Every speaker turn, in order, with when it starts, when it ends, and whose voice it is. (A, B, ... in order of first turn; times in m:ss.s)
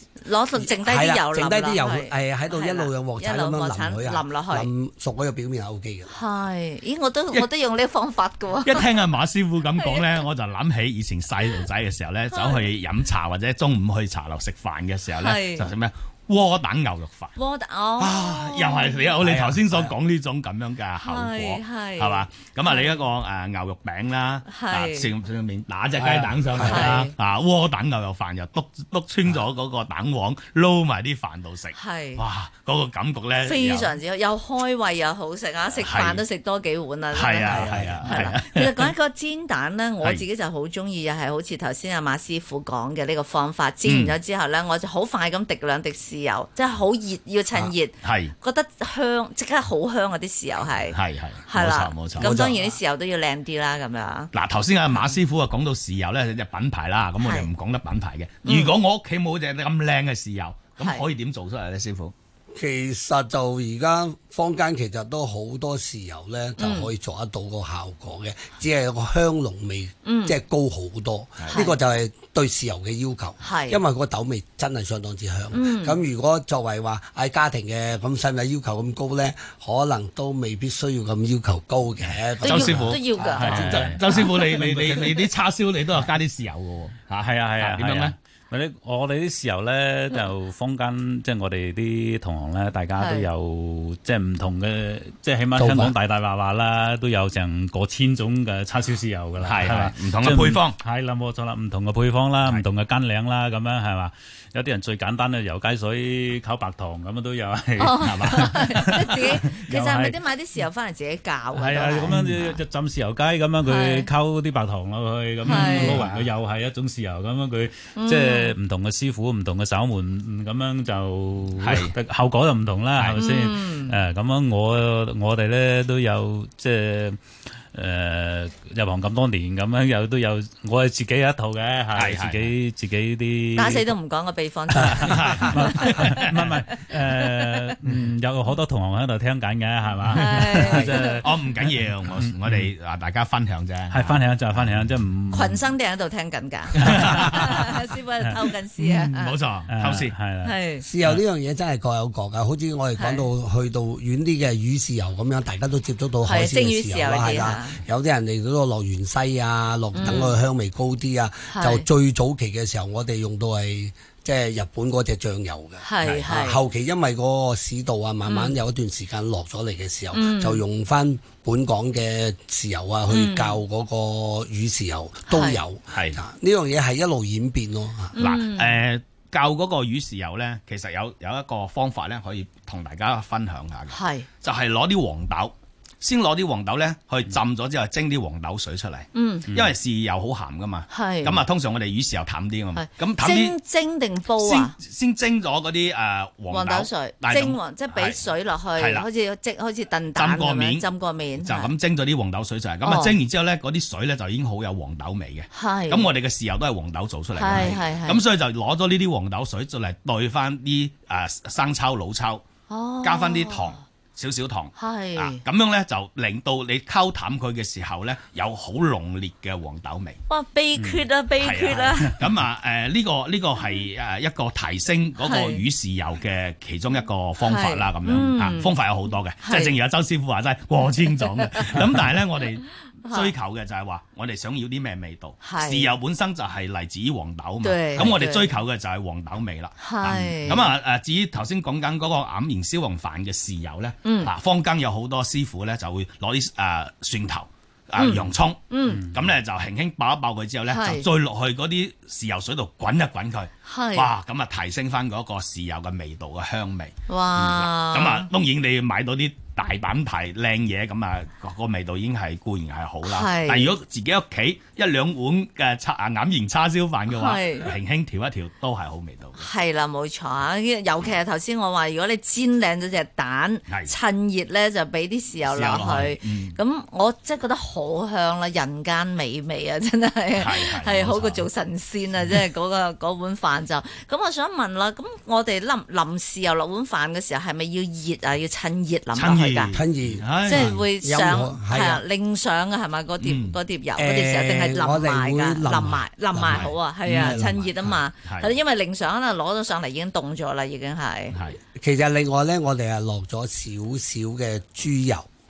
0:00.2-0:04.7 A
0:00.6-0:06.2 B
0:06.1-0:08.9 A
0:08.6-0:17.3 C
0:09.8-0:10.2 A
0:12.3-0:12.6 A
0:15.2-0:15.7 A
0:17.3-0:19.1 A
0:18.0-0:34.0 C
0:19.2-0:19.9 B
0:21.0-0:23.0 A
0:24.4-0:25.1 A
0:26.0-0:27.0 B
0:26.6-0:27.1 A
0:31.7-0:32.2 A
0:33.4-0:54.3 A
0:35.8-0:36.2 C
0:37.1-0:38.9 C
0:37.5-0:38.3 B
0:43.8-0:44.2 C
0:48.0-0:48.3 C
0:50.9-0:52.3 C
0:52.2-0:52.8 B
0:54.3-1:02.1 C
0:57.2-0:57.5 A
0:58.4-0:58.8 A
1:00.8-1:01.0 A
1:02.5-1:23.0 B
1:06.6-1:06.9 A
1:10.0-1:10.4 A
1:11.5-1:11.8 A
1:13.4-1:13.8 A
1:15.5-1:16.0 A
1:22.4-1:28.1 C
1:22.4-1:23.8 A
1:23.3-1:25.2 D
1:27.1-1:50.2 D
1:33.0-1:33.3 A
1:35.5-1:35.9 B
1:39.4-1:40.8 C
1:47.8-1:52.6 A
1:48.0-1:48.6 C
1:51.5-2:07.2 D
1:53.6-1:54.1 A
1:55.4-1:56.3 C
1:55.4-1:56.0 A
1:57.9-1:58.6 A
2:01.6-2:02.0 C
2:03.2-2:03.9 A
2:07.7-2:13.9 D
2:11.9-2:12.5 C
2:13.5-2:16.0 A
2:14.8-2:22.7 D
2:14.9-2:16.2 C
2:20.1-2:21.2 A
2:20.5-2:24.7 C
2:23.9-2:25.6 D
2:25.3-2:29.4 A
2:26.7-2:27.6 C
2:26.8-2:27.7 D
2:28.8-2:30.2 C
2:29.7-2:31.2 D
2:30.4-2:30.8 A
2:30.8-2:58.2 B
2:33.0-2:33.2 A
2:36.2-2:37.8 A
2:39.9-2:40.3 A
2:41.5-2:41.8 A
2:45.8-2:46.6 A
2:48.2-2:48.5 A
2:50.1-2:50.6 A
2:53.1-2:53.6 A
2:55.3-2:55.6 A
2:55.9-2:56.2 C
2:58.1-2:58.8 A
2:58.2-3:13.6 C
3:03.9-3:04.3 A
3:09.1-3:09.5 A
3:10.9-3:11.4 A
3:12.7-3:14.7 A
3:14.4-3:18.2 C
3:16.5-3:21.7 A
3:18.8-3:19.0 C
3:20.1-3:20.9 C
3:21.4-3:32.4 C
3:22.8-3:23.2 A
3:25.5-3:26.1 A
3:27.3-3:28.2 A
3:32.7-3:33.8 A
3:33.0-3:40.2 C
3:34.8-3:35.4 A
3:40.3-3:42.2 A
3:40.8-3:41.1 D
3:41.4-4:29.5 C
3:42.0-3:42.3 D
3:45.2-3:45.6 A
3:47.4-3:48.7 A
3:49.4-3:49.8 A
3:53.0-3:53.3 A
3:55.4-3:55.9 A
3:57.6-3:58.6 A
3:59.8-4:00.7 A
4:04.0-4:04.3 A
4:08.0-4:09.0 A
4:08.9-4:09.2 D
4:10.7-4:11.0 A
4:13.6-4:14.1 A
4:17.1-4:18.3 A
4:23.0-4:23.7 A
4:27.1-4:27.7 A
4:29.4-4:49.7 A
4:33.7-4:33.9 C
4:35.4-4:36.6 C
4:40.4-4:41.5 C
4:49.2-4:50.7 C
4:49.7-4:52.0 B
4:50.4-5:01.4 A
4:53.2-4:53.6 C
4:54.0-4:58.0 B
4:56.5-4:57.5 C
4:58.2-4:58.5 C
5:01.3-5:01.6 C
5:01.7-5:05.3 B